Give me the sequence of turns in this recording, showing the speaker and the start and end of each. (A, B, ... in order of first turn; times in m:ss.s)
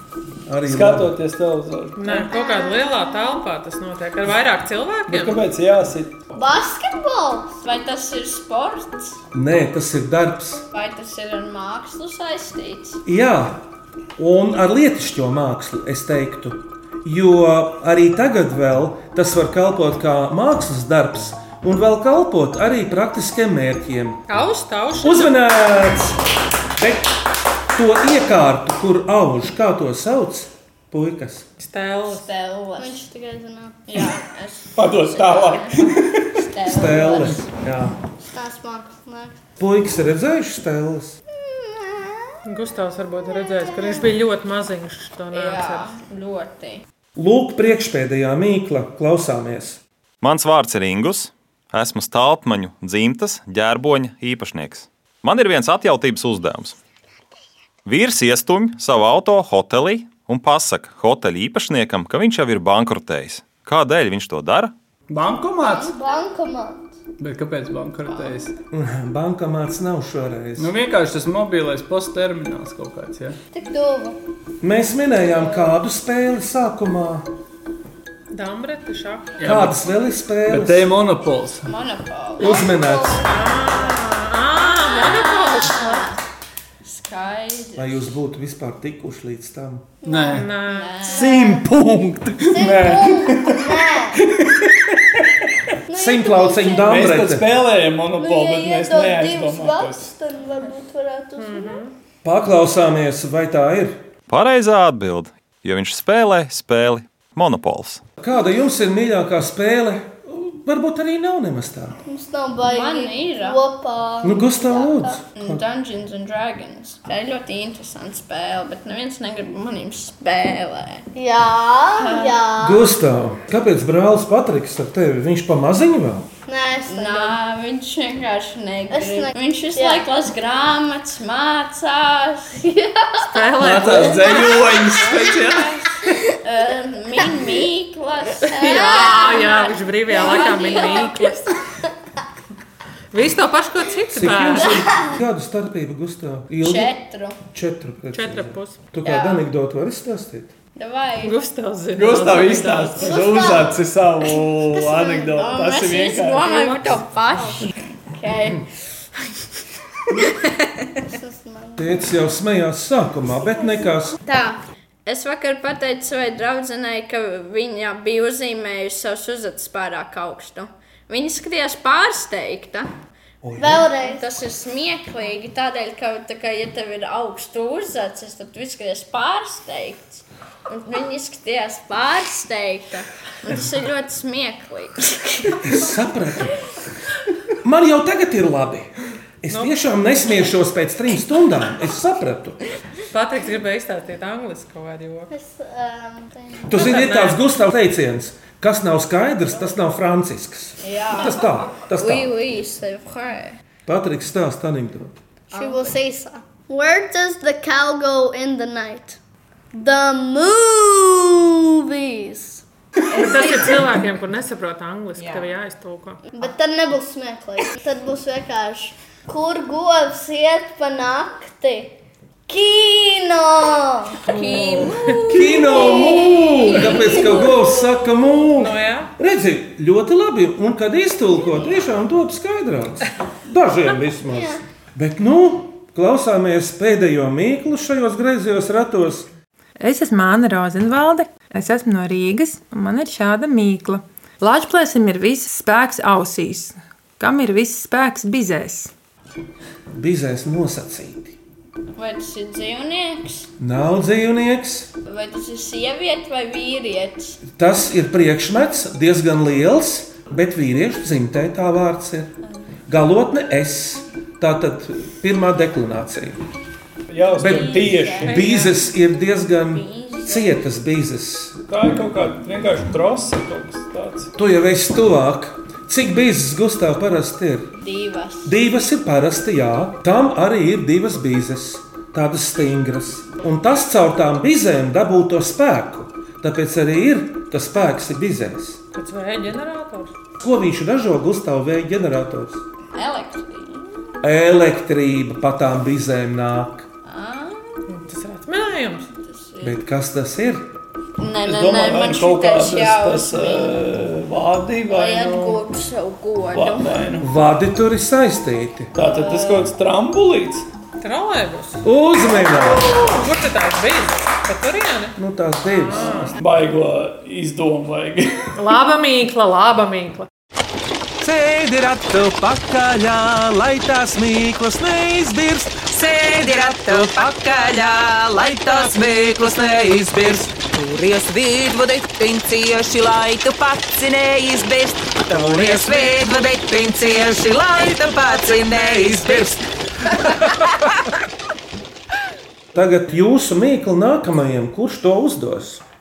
0:00.5-0:01.2 A
0:00.6-0:02.3 B
0:02.0-0:05.4 C
0:02.2-0:03.2 D
0:05.1-0:06.2 B
0:06.3-0:07.6 D
0:07.6-0:09.2 E
0:09.3-0:10.6 A
0:10.7-0:13.0 E
0:13.0-0:13.6 A
0:14.2-0:24.2 A
0:24.3-0:25.4 C
0:25.0-0:26.2 A
0:26.8-0:27.1 A
0:27.7-0:31.5 A
0:31.6-0:32.3 C
0:32.1-0:33.0 E
0:32.8-0:33.8 D
0:33.9-0:37.5 E
0:34.8-0:36.3 B
0:36.6-0:38.0 A
0:38.2-0:39.4 D
0:39.6-0:41.2 A
0:42.4-0:45.9 C
0:45.3-0:46.8 E
0:47.2-0:49.8 A
0:50.2-0:56.8 F
0:57.9-1:04.7 F
1:05.1-1:06.0 B
1:05.6-1:05.9 E
1:05.6-1:06.9 D
1:07.2-1:08.5 B
1:08.1-1:08.4 E
1:08.7-1:10.7 A
1:10.6-1:13.4 B
1:13.5-1:14.2 D
1:14.6-1:17.3 A
1:15.3-1:15.7 D
1:18.3-1:19.3 C
1:19.4-1:19.8 B
1:19.4-1:20.9 A
1:20.5-1:21.7 B
1:21.6-1:24.0 E
1:22.4-1:23.3 A
1:22.4-1:23.2 D
1:23.2-1:26.1 C
1:24.7-1:26.2 E
1:26.8-1:28.2 E
1:27.8-1:29.9 A
1:30.0-1:30.4 D
1:30.1-1:30.5 B
1:30.3-1:31.3 C
1:30.5-1:31.6 E
1:31.1-1:35.0 B
1:31.2-1:31.6 D
1:32.4-1:34.2 D
1:35.9-1:37.0 D
1:35.9-1:37.5 A
1:36.9-1:40.1 B
1:38.1-1:41.8 D
1:41.4-1:41.9 C
1:42.2-1:44.0 A
1:44.3-1:48.0 F
1:48.2-1:52.0 A
1:52.0-1:55.2 D
1:52.6-1:53.6 E
1:54.2-1:55.6 A
1:55.4-2:01.1 E
2:01.2-2:02.9 D
2:02.0-2:02.4 E
2:02.6-2:06.3 A
2:06.5-2:07.4 D
2:06.9-2:15.8 E
2:08.9-2:10.1 D
2:13.2-2:14.4 C
2:13.6-2:16.2 B
2:16.4-2:21.3 E
2:18.5-2:21.6 C
2:23.1-2:24.8 C
2:24.1-2:30.5 A
2:24.7-2:25.1 D
2:26.6-2:27.4 E
2:28.1-2:28.8 C
2:29.0-2:29.5 E
2:30.8-2:31.4 E
2:31.2-2:33.2 C
2:32.0-2:37.0 B
2:33.0-2:33.9 D
2:34.8-2:35.3 D
2:35.3-2:38.7 E
2:40.1-2:41.1 E
2:41.1-2:42.2 D
2:41.8-2:44.2 A
2:44.2-2:52.9 E
2:53.4-2:53.9 A
2:53.6-2:54.3 D
2:53.6-3:05.9 E
3:05.6-3:06.6 A
3:07.6-3:08.9 A
3:09.4-3:12.6 A
3:09.5-3:09.8 C
3:13.1-3:15.3 C
3:15.3-3:16.9 D
3:16.7-3:22.3 A
3:16.7-3:17.4 C
3:20.8-3:21.4 E
3:21.9-3:23.6 E
3:23.9-3:25.2 A
3:25.5-3:26.0 E
3:25.5-3:29.2 D
3:29.7-3:32.6 D
3:33.1-3:33.8 E
3:33.1-3:36.2 C
3:36.3-3:44.2 D
3:44.3-3:47.6 E
3:44.3-3:45.1 C
3:45.3-3:59.3 A
3:45.4-3:47.8 D
3:48.6-3:49.1 C
3:54.3-3:54.6 D
3:59.8-4:08.9 G
4:10.0-4:11.4 A
4:12.0-4:13.5 E
4:13.6-4:14.9 A
4:15.0-4:17.4 E
4:17.5-4:22.3 A
4:22.9-4:26.4 A
4:27.1-4:28.4 B
4:27.4-4:28.4 E
4:27.4-4:31.6 A
4:28.3-4:28.8 C
4:29.7-4:30.6 E
4:31.7-4:34.3 B
4:34.4-4:37.8 A
4:37.8-4:38.6 E
4:38.4-4:48.8 A
4:49.0-4:50.1 C
4:50.4-4:52.6 A
4:52.9-4:54.2 E
4:54.2-4:56.9 A
4:57.0-4:57.9 E
4:57.9-4:59.1 C
4:59.1-4:59.8 E
4:59.6-5:00.7 A
5:01.2-5:03.9 E
5:01.4-5:05.6 B
5:04.9-5:07.1 E
5:06.5-5:07.3 B
5:07.2-5:08.9 A
5:09.0-5:10.7 B
5:09.0-5:09.7 E
5:11.0-5:11.9 C
5:11.8-5:13.0 A
5:12.5-5:15.2 C
5:12.6-5:13.1 E
5:15.2-5:16.4 A
5:15.7-5:16.4 C
5:15.9-5:18.5 B
5:18.6-5:20.3 C
5:21.2-5:25.8 H
5:25.8-5:39.6 I
5:26.6-5:27.6 H
5:28.5-5:29.3 H
5:39.1-5:39.5 H
5:42.7-5:45.8 A